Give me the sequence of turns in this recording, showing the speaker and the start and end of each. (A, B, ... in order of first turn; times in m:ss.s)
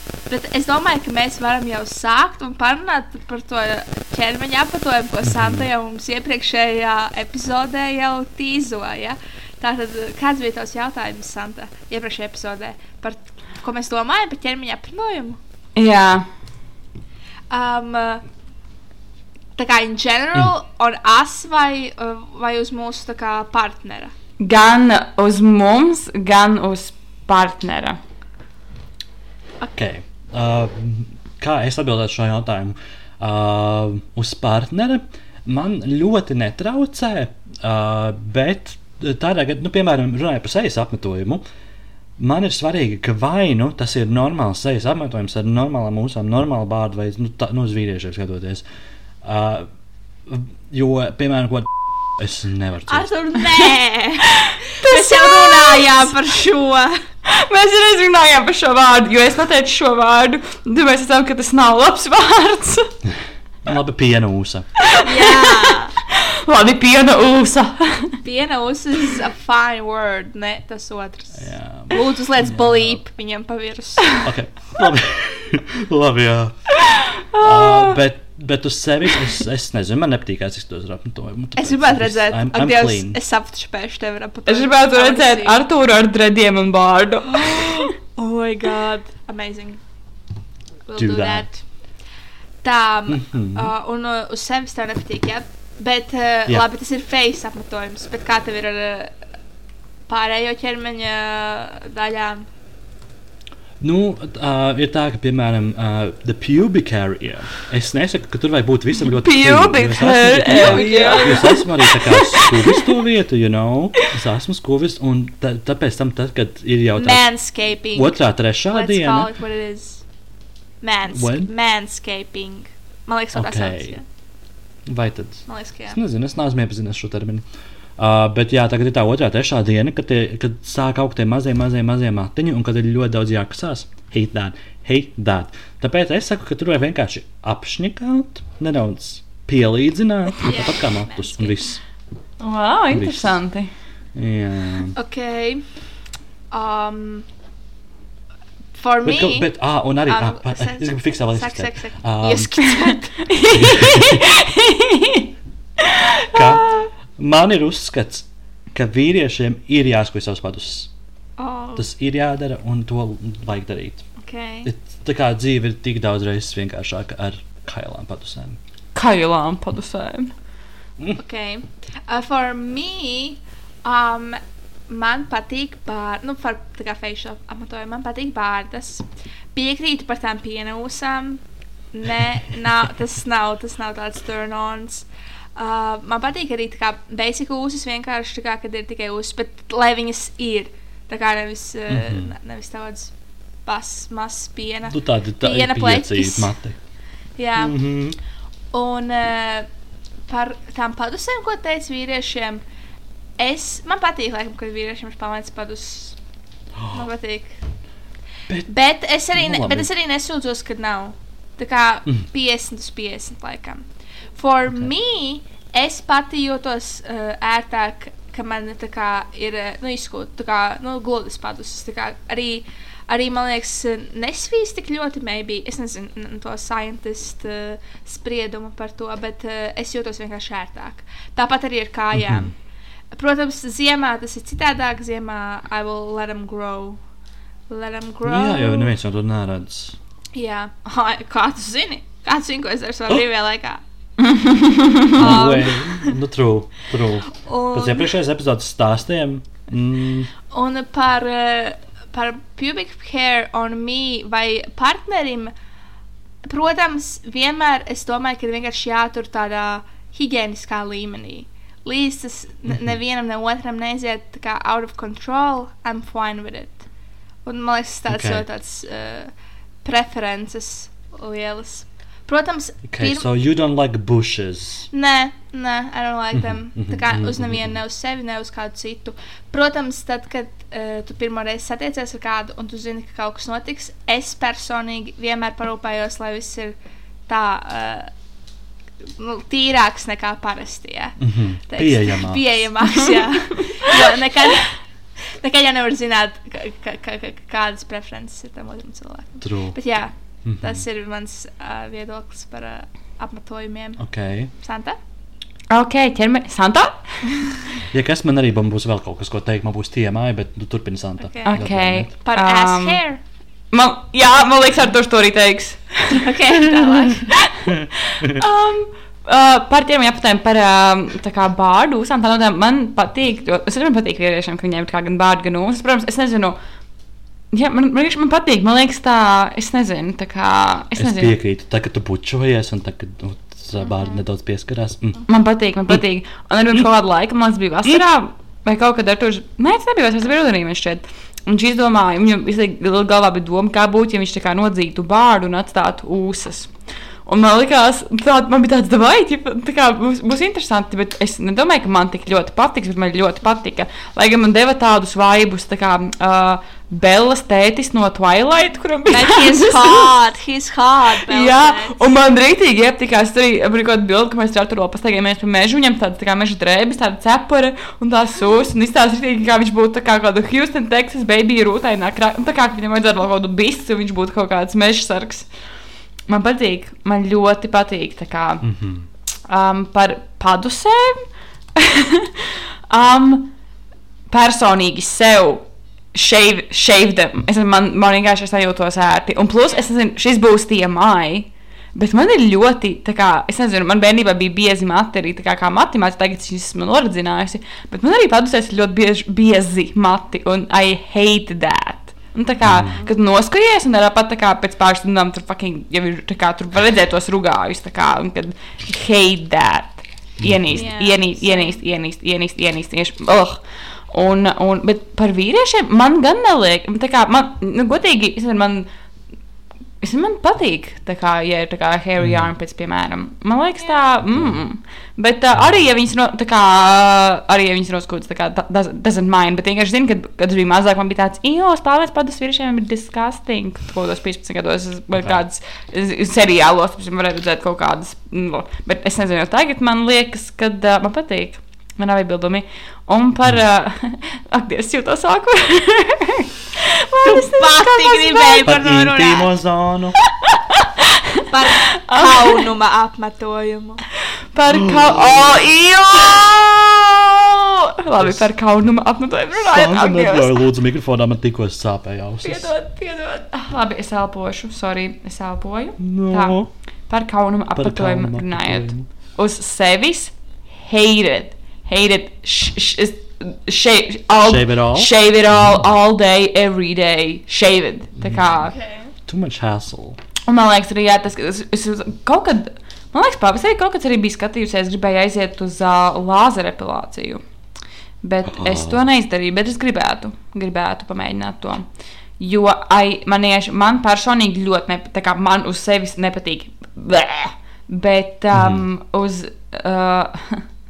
0:00.3-0:15.4 A
0:05.2-0:05.6 B
0:15.8-0:16.2 C
0:17.5-0:18.2 A
0:19.6-0:24.1 A
0:24.4-0:28.0 C
0:29.6-0:41.4 B
0:42.2-0:48.6 B
0:49.2-0:49.7 B
0:50.2-0:53.1 B
0:52.9-0:57.0 A
0:54.4-0:56.1 C
0:57.2-1:02.9 C
1:03.6-1:04.6 B
1:04.8-1:08.2 C
1:05.0-1:05.9 A
1:08.2-1:14.1 A
1:11.4-1:13.0 B
1:14.2-1:16.7 B
1:16.8-1:18.0 C
1:17.4-1:23.2 B
1:21.6-1:25.6 A
1:24.5-1:27.9 C
1:27.3-1:29.8 A
1:30.8-1:31.6 A
1:31.0-1:31.5 B
1:32.6-1:39.1 A
1:33.1-1:33.7 B
1:40.1-1:42.4 A
1:43.8-1:57.2 B
1:49.0-1:52.9 C
1:50.5-1:51.6 A
1:57.0-2:00.0 A
1:57.9-1:59.3 B
2:00.8-2:04.0 A
2:01.1-2:01.5 B
2:03.3-2:04.0 B
2:04.8-2:07.4 B
2:05.5-2:06.0 A
2:08.0-2:21.8 B
2:20.4-2:21.6 A
2:22.4-2:23.7 C
2:22.9-2:23.4 B
2:24.1-2:25.0 B
2:25.0-2:25.6 A
2:26.5-2:27.3 A
2:28.7-2:29.5 A
2:29.0-2:32.5 B
2:30.0-2:33.3 A
2:33.2-2:35.3 C
2:33.5-2:34.2 B
2:35.8-2:36.9 C
2:36.3-2:40.9 B
2:41.4-2:41.8 A
2:41.8-2:44.1 B
2:44.2-2:44.7 A
2:44.6-2:48.6 B
2:48.9-2:50.3 C
2:51.2-3:13.1 A
3:11.9-3:12.3 B
3:13.6-3:16.5 A
3:14.9-3:16.8 B
3:17.4-3:17.7 A
3:17.6-3:18.2 B
3:18.7-3:19.7 A
3:20.3-3:22.6 A
3:23.4-3:26.2 A
3:26.9-3:27.6 A
3:28.7-3:52.5 A
3:29.3-3:29.9 B
3:52.1-3:52.5 B
3:53.1-3:57.0 A
3:57.7-3:58.9 A
3:58.2-4:00.0 B
4:00.3-4:03.8 A
4:04.2-4:05.2 C
4:05.1-4:10.3 B
4:05.2-4:06.1 A
4:07.3-4:08.1 A
4:10.5-4:15.5 A
4:16.4-4:26.8 A
4:22.7-4:23.0 B
4:27.4-4:29.3 A
4:28.1-4:28.4 B
4:29.8-4:33.3 A
4:32.9-4:34.9 B
4:34.9-4:46.8 A
4:36.3-4:37.8 B
4:47.3-4:48.1 A
4:49.1-4:51.2 A
4:51.2-4:52.6 B
4:51.7-5:04.0 A
4:59.4-4:59.8 B
5:00.4-5:00.8 B
5:04.0-5:04.5 B
5:04.6-5:05.0 A
5:05.7-5:07.6 C
5:07.9-5:12.1 B
5:11.2-5:11.6 A
5:11.4-5:13.0 C
5:12.2-5:13.2 A
5:13.7-5:16.6 C
5:16.1-5:17.3 A
5:17.2-5:26.6 C
5:17.7-5:18.4 B
5:27.5-5:31.4 C
5:31.0-5:35.2 B
5:35.3-5:46.7 C
5:47.2-6:00.1 C
5:59.1-6:02.1 A
6:01.2-6:15.5 C
6:16.3-6:18.6 C
6:18.6-6:19.1 B
6:19.5-6:23.5 C
6:24.3-6:58.9 C
6:42.6-6:43.0 B
6:50.4-6:50.8 B
6:50.7-6:51.8 A
7:00.0-7:28.7 C
7:02.2-7:02.5 B
7:04.2-7:04.6 B
7:05.5-7:05.8 B
7:27.2-7:29.5 A
7:28.6-7:30.2 B
7:30.5-7:32.6 C
7:31.5-7:34.0 A
7:34.5-7:40.5 C
7:34.7-7:35.7 B
7:38.1-7:38.4 B
7:39.6-7:42.7 B
7:42.4-7:58.7 C
7:46.0-7:46.7 B
7:47.8-7:49.1 B
7:54.4-7:55.8 B
7:58.2-7:58.5 B
7:58.5-7:59.1 A
7:59.3-8:00.2 B
8:00.5-8:07.4 C
8:08.2-8:11.9 C
8:08.4-8:09.0 B
8:12.4-8:20.7 C
8:18.5-8:18.8 B